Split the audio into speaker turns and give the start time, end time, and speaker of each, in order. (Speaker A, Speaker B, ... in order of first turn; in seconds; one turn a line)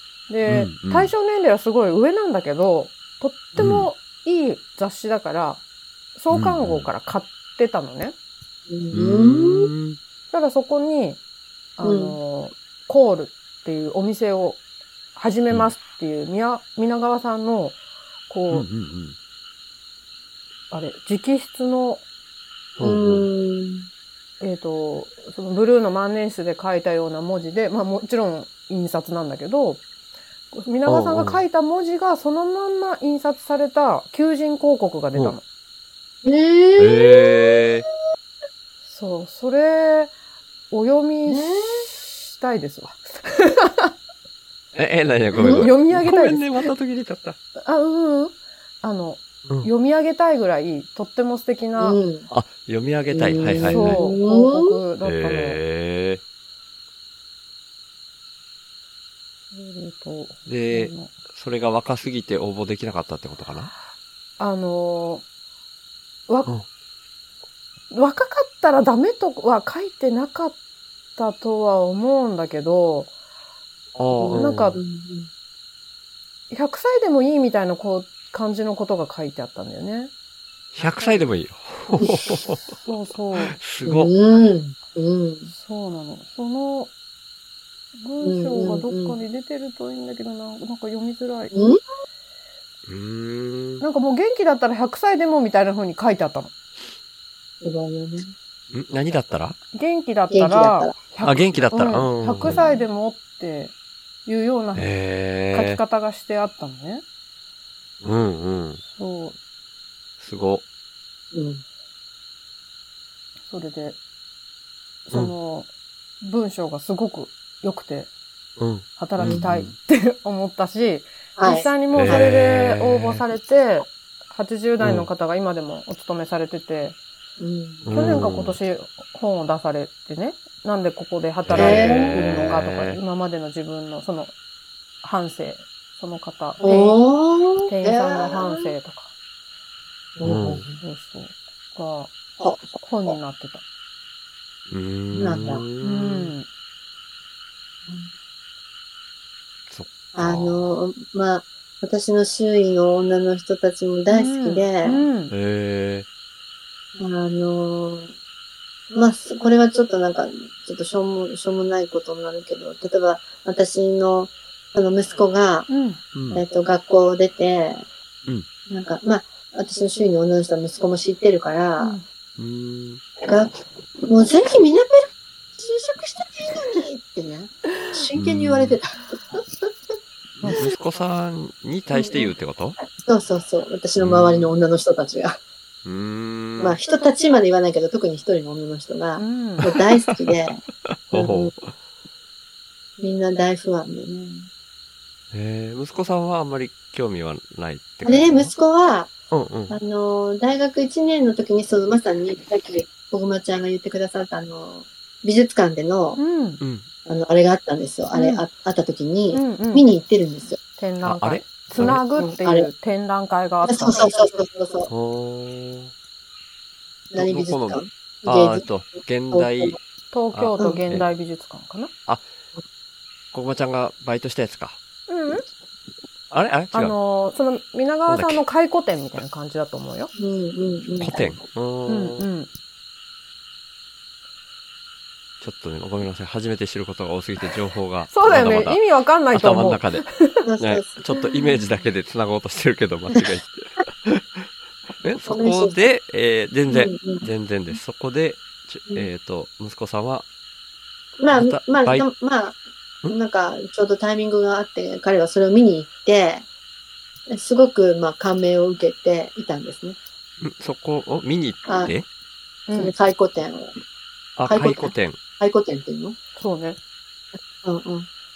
Speaker A: 0.3-5.6
Speaker B: 0.5-1.1
Speaker B: 3.5-3.9
Speaker A: 6.2-8.2
Speaker B: 6.3-6.9
Speaker C: 8.7-9.7
Speaker B: 8.9-10.0
Speaker A: 10.3-11.2
Speaker A: 11.8-14.6
Speaker C: 11.8-12.2
Speaker A: 15.1-17.8
Speaker A: 18.3-18.7
Speaker B: 18.5-19.1
Speaker A: 20.7-22.0
Speaker B: 22.8-23.2
Speaker C: 22.8-23.9
Speaker A: 24.4-29.8
Speaker A: 30.5-35.4
Speaker B: 30.9-31.4
Speaker C: 36.2-37.7
Speaker B: 36.8-37.9
Speaker A: 38.8-40.1
Speaker A: 40.7-43.9
Speaker C: 41.2-41.9
Speaker B: 44.7-47.4
Speaker C: 45.4-45.7
Speaker A: 45.4-46.5
Speaker A: 47.6-52.0
Speaker C: 51.8-52.3
Speaker B: 52.3-54.1
Speaker C: 53.1-54.7
Speaker A: 53.5-55.6
Speaker B: 55.0-56.2
Speaker A: 59.5-61.1
Speaker B: 60.5-63.7
Speaker A: 64.4-65.2
Speaker A: 67.9-70.6
Speaker A: 71.2-73.1
Speaker B: 73.9-74.8
Speaker C: 74.2-75.3
Speaker A: 74.3-74.8
Speaker A: 76.5-80.1
Speaker B: 80.7-82.6
Speaker C: 82.0-82.2
Speaker A: 82.6-83.6
Speaker B: 83.5-84.1
Speaker C: 83.8-85.5
Speaker A: 85.5-86.9
Speaker A: 88.0-91.7
Speaker C: 88.2-89.2
Speaker C: 91.5-91.8
Speaker B: 92.9-93.8
Speaker A: 93.8-96.5
Speaker C: 97.6-98.3
Speaker B: 98.7-99.6
Speaker A: 99.7-103.7
Speaker C: 100.3-100.9
Speaker B: 101.2-102.6
Speaker C: 102.4-102.8
Speaker A: 104.2-104.9
Speaker B: 104.7-105.8
Speaker A: 105.5-107.0
Speaker B: 108.0-108.8
Speaker A: 108.9-109.4
Speaker B: 110.2-110.6
Speaker C: 111.3-111.6
Speaker A: 113.5-114.0
Speaker A: 115.0-115.7
Speaker A: 116.2-118.1
Speaker B: 118.6-119.7
Speaker A: 119.0-127.0
Speaker C: 121.4-122.3
Speaker B: 121.9-123.2
Speaker B: 124.8-125.1
Speaker C: 127.4-127.9
Speaker B: 127.8-128.6
Speaker A: 127.9-134.3
Speaker B: 131.4-133.0
Speaker C: 131.5-132.2
Speaker A: 135.0-137.0
Speaker C: 136.6-138.7
Speaker A: 137.7-139.1
Speaker C: 140.2-140.8
Speaker B: 140.2-140.6
Speaker A: 140.8-142.1
Speaker C: 142.4-143.1
Speaker A: 142.7-143.6
Speaker B: 144.7-146.3
Speaker C: 145.1-145.6
Speaker A: 145.8-146.5
Speaker B: 149.7-150.7
Speaker C: 150.1-155.1
Speaker A: 154.1-155.3
Speaker B: 155.3-156.1
Speaker C: 157.0-158.1
Speaker C: 158.9-165.7
Speaker A: 165.7-166.0
Speaker B: 166.1-166.4
Speaker C: 166.3-167.8
Speaker C: 168.7-172.0
Speaker A: 171.8-172.0
Speaker B: 172.4-173.0
Speaker C: 173.2-175.0
Speaker C: 175.6-179.7
Speaker B: 178.2-178.8
Speaker A: 180.4-180.7
Speaker B: 180.6-182.8
Speaker C: 181.9-182.3
Speaker C: 182.9-185.4
Speaker B: 184.0-184.5
Speaker B: 185.8-186.8
Speaker C: 186.6-191.5
Speaker A: 189.2-189.7
Speaker B: 189.7-190.1
Speaker B: 190.9-191.6
Speaker C: 193.0-194.5
Speaker B: 195.3-198.5
Speaker C: 198.0-199.1
Speaker B: 199.3-199.8
Speaker C: 199.7-206.2
Speaker A: 206.2-206.6
Speaker B: 206.6-206.9
Speaker C: 207.1-210.6
Speaker A: 208.1-208.4
Speaker A: 209.3-209.9
Speaker A: 210.8-214.1
Speaker B: 211.0-212.0
Speaker C: 211.8-212.7
Speaker C: 213.6-214.9
Speaker B: 214.9-215.9
Speaker C: 217.1-218.7
Speaker B: 217.2-219.8
Speaker C: 219.3-219.8
Speaker A: 220.1-221.9
Speaker B: 220.3-221.1
Speaker B: 223.3-224.8
Speaker A: 225.1-225.4
Speaker B: 226.3-226.9
Speaker A: 226.7-230.1
Speaker B: 228.1-228.4
Speaker C: 230.2-231.3
Speaker B: 231.0-232.2
Speaker A: 231.9-232.5
Speaker B: 235.4-240.0
Speaker A: 238.1-240.4
Speaker C: 240.4-241.3
Speaker B: 240.6-250.2
Speaker C: 245.3-245.8
Speaker C: 246.7-247.2
Speaker C: 251.2-256.4
Speaker B: 251.3-252.0
Speaker C: 257.3-260.0
Speaker B: 260.4-262.1
Speaker C: 261.6-261.9
Speaker A: 262.7-262.9
Speaker C: 262.7-263.7
Speaker B: 264.4-265.2
Speaker C: 264.4-266.2
Speaker A: 266.4-266.8
Speaker C: 267.6-268.1